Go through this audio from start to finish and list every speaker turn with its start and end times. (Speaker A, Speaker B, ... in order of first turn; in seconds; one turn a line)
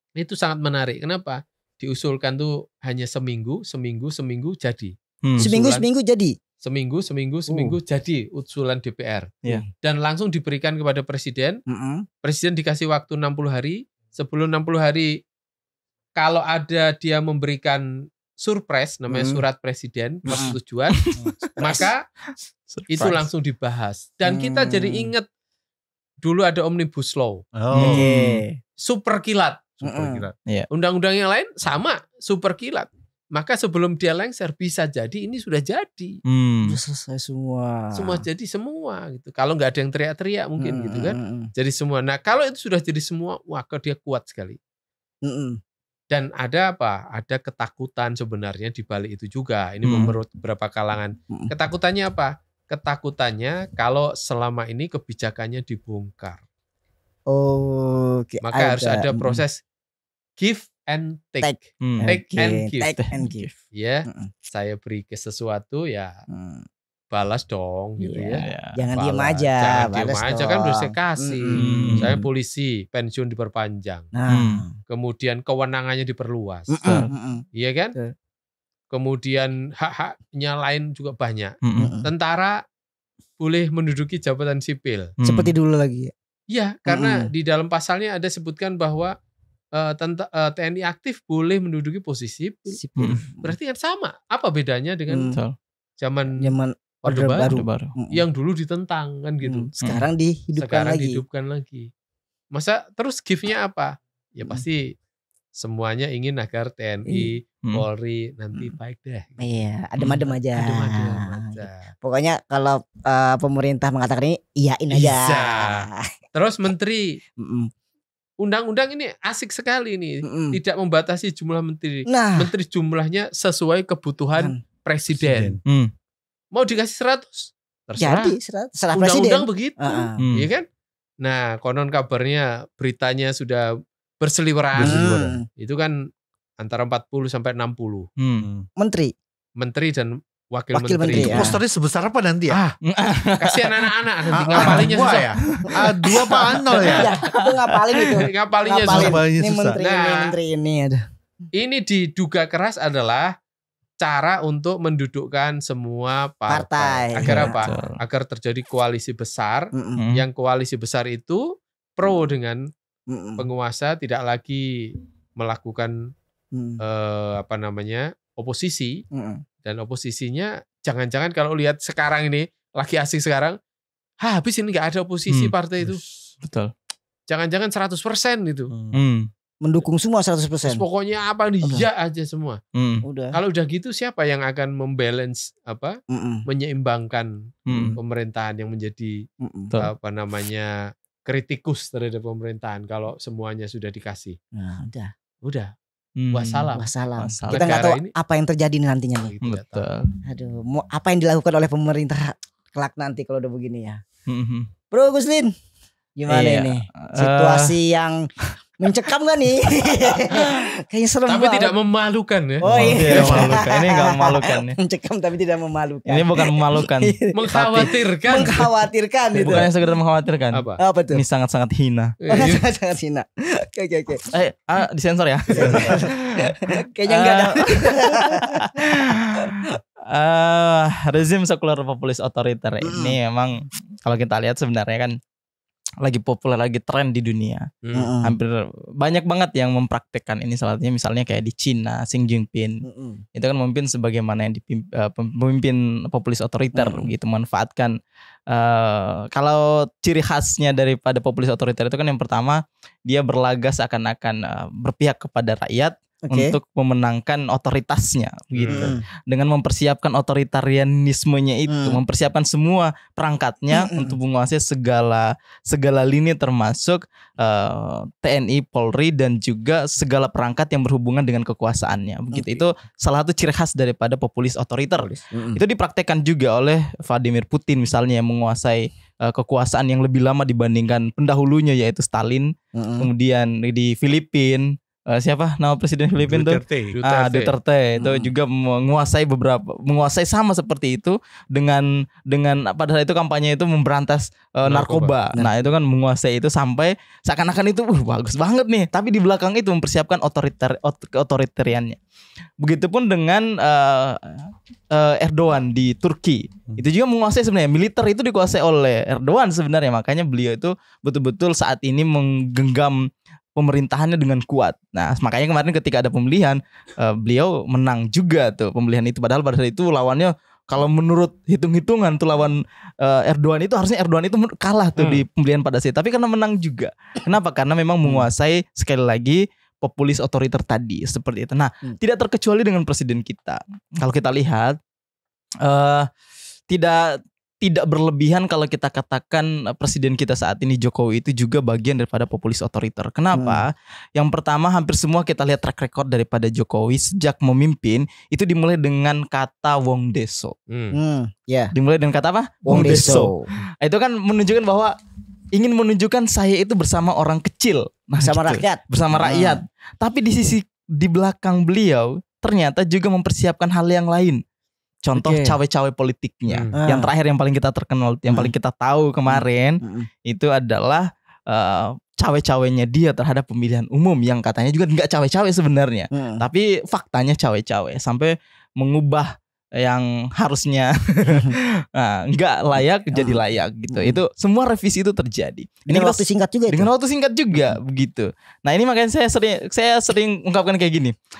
Speaker A: 0.2-5.8
Speaker B: 5.2-5.5
Speaker C: 5.4-6.3
Speaker A: 6.6-11.6
Speaker C: 7.5-7.8
Speaker C: 11.7-12.1
Speaker A: 12.2-15.1
Speaker A: 16.2-17.8
Speaker A: 18.4-21.0
Speaker C: 19.1-19.4
Speaker C: 20.3-20.5
Speaker B: 21.0-21.8
Speaker D: 21.2-21.5
Speaker A: 21.6-22.0
Speaker C: 21.6-21.9
Speaker B: 22.7-23.3
Speaker A: 22.9-25.2
Speaker C: 24.3-25.1
Speaker A: 26.2-27.4
Speaker D: 27.6-28.0
Speaker B: 27.7-28.4
Speaker C: 27.8-28.6
Speaker A: 28.8-29.8
Speaker D: 29.8-30.3
Speaker C: 29.8-30.2
Speaker A: 30.7-36.2
Speaker B: 36.3-36.8
Speaker C: 36.6-38.2
Speaker A: 37.9-44.6
Speaker C: 40.6-41.5
Speaker C: 45.2-45.6
Speaker A: 46.1-56.4
Speaker B: 49.8-50.1
Speaker C: 57.3-59.4
Speaker A: 58.4-59.6
Speaker A: 60.4-62.9
Speaker C: 61.4-63.5
Speaker B: 61.8-62.1
Speaker B: 63.0-63.5
Speaker A: 63.7-66.1
Speaker C: 66.3-66.7
Speaker A: 67.1-68.4
Speaker C: 68.0-72.3
Speaker B: 68.4-68.8
Speaker A: 68.9-74.1
Speaker B: 71.5-72.1
Speaker D: 71.6-72.0
Speaker C: 74.1-74.7
Speaker B: 74.3-74.6
Speaker A: 74.9-76.8
Speaker C: 76.7-77.4
Speaker B: 76.8-77.1
Speaker A: 77.5-77.9
Speaker A: 78.9-82.6
Speaker B: 81.6-81.9
Speaker C: 81.8-82.1
Speaker A: 83.4-85.1
Speaker B: 85.2-85.5
Speaker C: 85.2-86.1
Speaker A: 86.5-89.1
Speaker C: 86.8-87.3
Speaker A: 89.7-95.3
Speaker C: 92.7-93.5
Speaker C: 95.1-95.4
Speaker A: 96.0-97.5
Speaker C: 96.4-98.2
Speaker B: 97.4-97.9
Speaker A: 98.1-99.7
Speaker C: 99.4-101.2
Speaker B: 99.8-100.1
Speaker A: 100.5-101.9
Speaker A: 102.5-104.9
Speaker A: 105.5-109.4
Speaker C: 107.1-107.3
Speaker C: 109.4-116.1
Speaker A: 110.5-111.9
Speaker A: 114.9-117.2
Speaker C: 117.4-117.7
Speaker A: 118.4-125.6
Speaker C: 120.2-120.6
Speaker C: 122.1-122.5
Speaker D: 125.1-125.6
Speaker A: 126.5-128.3
Speaker C: 128.0-130.2
Speaker A: 128.9-130.7
Speaker B: 130.2-130.5
Speaker A: 131.2-133.7
Speaker A: 134.2-136.0
Speaker C: 134.8-135.4
Speaker D: 134.8-135.3
Speaker A: 136.6-138.1
Speaker B: 138.2-138.5
Speaker D: 138.4-138.7
Speaker C: 138.8-139.1
Speaker A: 139.6-141.5
Speaker C: 140.7-141.6
Speaker D: 141.2-142.6
Speaker A: 142.5-142.8
Speaker B: 142.8-143.9
Speaker A: 143.4-145.3
Speaker D: 144.3-147.1
Speaker B: 144.5-148.2
Speaker C: 147.0-151.0
Speaker A: 148.1-149.2
Speaker D: 148.9-149.8
Speaker A: 149.8-150.3
Speaker A: 151.6-153.3
Speaker A: 154.0-161.4
Speaker C: 156.5-157.6
Speaker B: 157.2-158.0
Speaker C: 159.7-160.0
Speaker B: 160.0-160.2
Speaker A: 161.9-162.6
Speaker C: 163.1-163.4
Speaker A: 163.4-164.7
Speaker A: 165.4-165.9
Speaker C: 166.5-166.8
Speaker A: 166.8-169.0
Speaker C: 169.1-169.4
Speaker A: 169.6-173.6
Speaker A: 174.2-176.0
Speaker B: 175.3-175.5
Speaker D: 175.8-176.1
Speaker B: 176.4-176.7
Speaker A: 177.3-178.7
Speaker D: 178.7-179.0
Speaker B: 178.9-179.3
Speaker C: 179.6-180.8
Speaker A: 180.7-182.6
Speaker B: 182.7-183.0
Speaker C: 183.0-183.4
Speaker A: 183.3-187.3
Speaker C: 186.1-186.4
Speaker B: 187.7-188.0
Speaker C: 187.7-188.0
Speaker A: 188.0-189.2
Speaker C: 189.4-189.7
Speaker A: 189.8-190.7
Speaker A: 191.2-194.4
Speaker C: 194.5-195.1
Speaker A: 195.4-195.7
Speaker B: 196.2-197.8
Speaker A: 196.3-196.9
Speaker C: 196.8-199.3
Speaker A: 197.5-198.1
Speaker A: 199.1-199.8
Speaker B: 199.4-200.1
Speaker C: 200.2-204.0
Speaker B: 204.3-204.7
Speaker C: 204.9-205.5
Speaker C: 206.2-208.2
Speaker B: 206.3-207.8
Speaker C: 208.8-211.7
Speaker B: 209.6-210.1
Speaker A: 211.3-213.4
Speaker C: 212.6-219.7
Speaker B: 212.7-214.8
Speaker D: 213.1-213.5
Speaker B: 216.1-217.9
Speaker A: 217.3-218.6
Speaker B: 219.4-220.6
Speaker A: 220.5-220.8
Speaker C: 220.8-221.2
Speaker B: 221.1-222.1
Speaker A: 222.2-222.6
Speaker C: 222.3-224.2
Speaker B: 224.3-235.2
Speaker C: 225.5-229.8
Speaker D: 225.6-226.0
Speaker C: 232.8-233.2
Speaker B: 236.0-237.7
Speaker A: 237.8-238.1
Speaker C: 237.9-238.4
Speaker B: 238.2-247.9
Speaker C: 242.8-243.2
Speaker C: 246.8-247.1
Speaker B: 248.5-302.0
Speaker C: 256.3-256.6
Speaker A: 258.5-258.9
Speaker C: 258.7-259.0
Speaker C: 261.7-262.0
Speaker C: 263.7-264.2
Speaker C: 272.3-272.7
Speaker C: 275.0-275.6
Speaker C: 282.7-283.1
Speaker D: 286.3-287.0
Speaker A: 286.9-287.5
Speaker C: 288.0-288.3
Speaker A: 294.6-295.1
Speaker B: 302.6-313.0
Speaker B: 313.6-334.8
Speaker C: 328.0-328.3
Speaker B: 335.6-336.1
Speaker B: 336.7-350.5
Speaker C: 343.3-343.6
Speaker A: 350.7-351.0
Speaker C: 350.9-351.7
Speaker B: 351.7-354.9
Speaker C: 352.7-353.4
Speaker B: 355.5-364.4
Speaker C: 358.2-359.6
Speaker B: 365.1-391.1
Speaker C: 365.1-365.6
Speaker A: 366.5-366.8
Speaker C: 366.8-367.1
Speaker C: 369.3-370.1
Speaker C: 376.1-376.4
Speaker C: 382.8-383.4
Speaker C: 383.9-384.2
Speaker C: 385.9-386.9